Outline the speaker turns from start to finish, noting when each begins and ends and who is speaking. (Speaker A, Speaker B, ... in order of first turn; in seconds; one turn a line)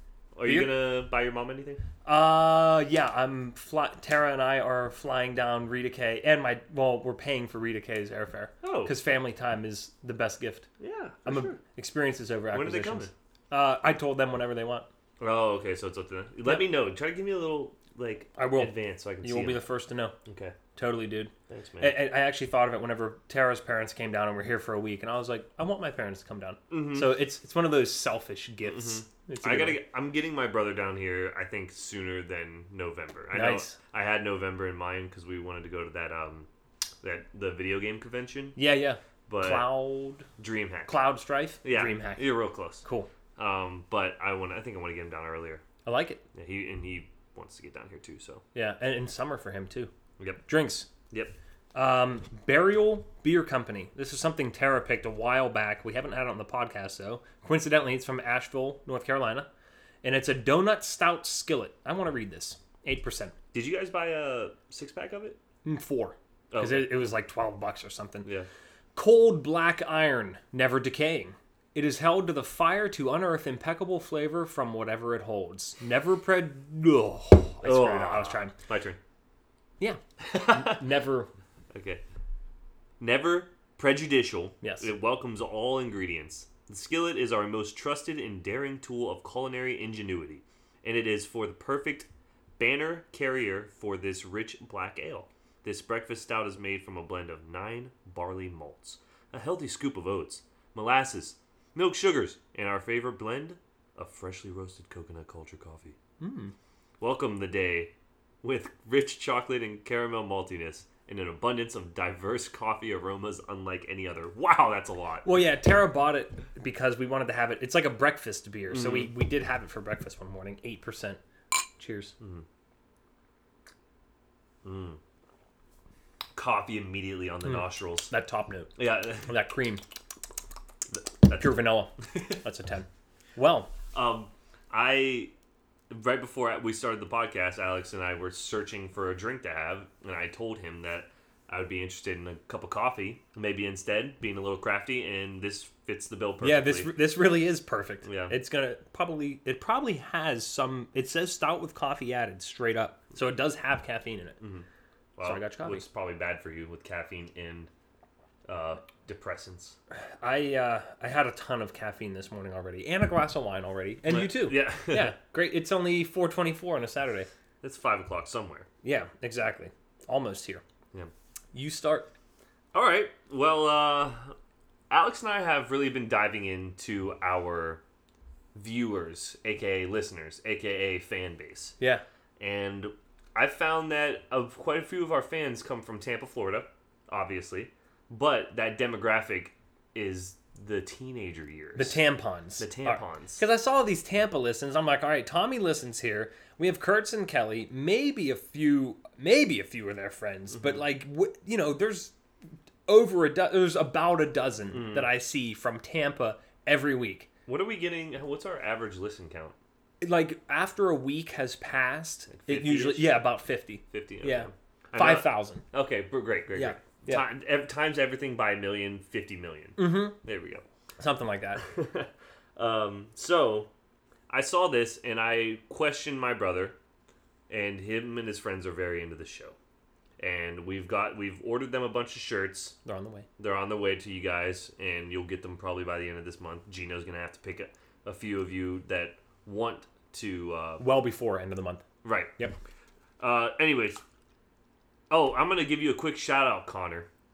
Speaker A: 0.3-1.8
Speaker B: 0.5-0.7
Speaker B: 2.0-10.7
Speaker A: 8.6-8.9
Speaker A: 10.8-11.6
Speaker B: 11.2-14.8
Speaker A: 12.5-13.1
Speaker A: 15.2-19.6
Speaker B: 18.4-20.1
Speaker A: 20.2-20.6
Speaker B: 20.8-29.8
Speaker A: 21.5-22.0
Speaker A: 26.7-27.2
Speaker A: 28.6-36.5
Speaker B: 33.3-33.8
Speaker A: 37.0-38.6
Speaker B: 38.5-40.3
Speaker A: 39.3-39.7
Speaker A: 40.4-40.9
Speaker B: 40.9-42.3
Speaker A: 41.6-42.8
Speaker B: 42.8-43.1
Speaker A: 43.4-45.6
Speaker B: 45.8-46.2
Speaker A: 46.3-48.4
Speaker B: 48.5-49.9
Speaker A: 50.2-50.4
Speaker B: 50.5-50.9
Speaker A: 51.1-51.3
Speaker B: 51.7-59.5
Speaker B: 60.0-63.3
Speaker A: 63.5-65.4
Speaker B: 65.6-68.3
Speaker A: 66.5-66.9
Speaker B: 69.0-78.5
Speaker A: 77.6-79.0
Speaker B: 79.8-81.3
Speaker A: 80.2-80.8
Speaker A: 81.7-82.0
Speaker A: 83.0-106.0
Speaker B: 84.6-84.9
Speaker B: 106.2-106.5
Speaker A: 107.0-107.9
Speaker A: 108.4-115.3
Speaker B: 115.2-121.2
Speaker A: 118.7-119.1
Speaker B: 121.8-122.1
Speaker A: 124.6-125.0
Speaker A: 126.3-128.1
Speaker B: 127.4-129.8
Speaker A: 128.8-129.4
Speaker A: 130.9-131.7
Speaker B: 131.4-133.7
Speaker A: 133.9-135.3
Speaker A: 135.9-146.9
Speaker B: 146.4-154.4
Speaker A: 148.0-148.3
Speaker A: 154.4-157.7
Speaker B: 155.2-155.8
Speaker A: 158.4-159.8
Speaker B: 159.9-167.3
Speaker A: 164.1-165.2
Speaker A: 167.6-168.7
Speaker B: 168.8-170.6
Speaker B: 171.5-172.1
Speaker A: 172.7-174.3
Speaker A: 174.9-177.8
Speaker A: 178.5-181.7
Speaker A: 182.4-192.0
Speaker B: 191.8-202.1
Speaker A: 192.6-193.4
Speaker A: 200.5-200.8
Speaker B: 202.9-207.3
Speaker A: 204.7-205.1
Speaker A: 207.4-209.6
Speaker B: 210.0-215.6
Speaker A: 212.3-213.2
Speaker A: 213.9-220.7
Speaker B: 216.5-217.3
Speaker B: 219.8-220.2
Speaker B: 221.0-221.6
Speaker A: 221.6-223.7
Speaker A: 224.3-226.8
Speaker A: 227.5-229.6
Speaker A: 230.2-232.8
Speaker B: 232.8-233.3
Speaker A: 233.4-240.8
Speaker B: 240.8-241.8
Speaker A: 242.0-242.4
Speaker A: 243.2-244.0
Speaker A: 245.1-247.1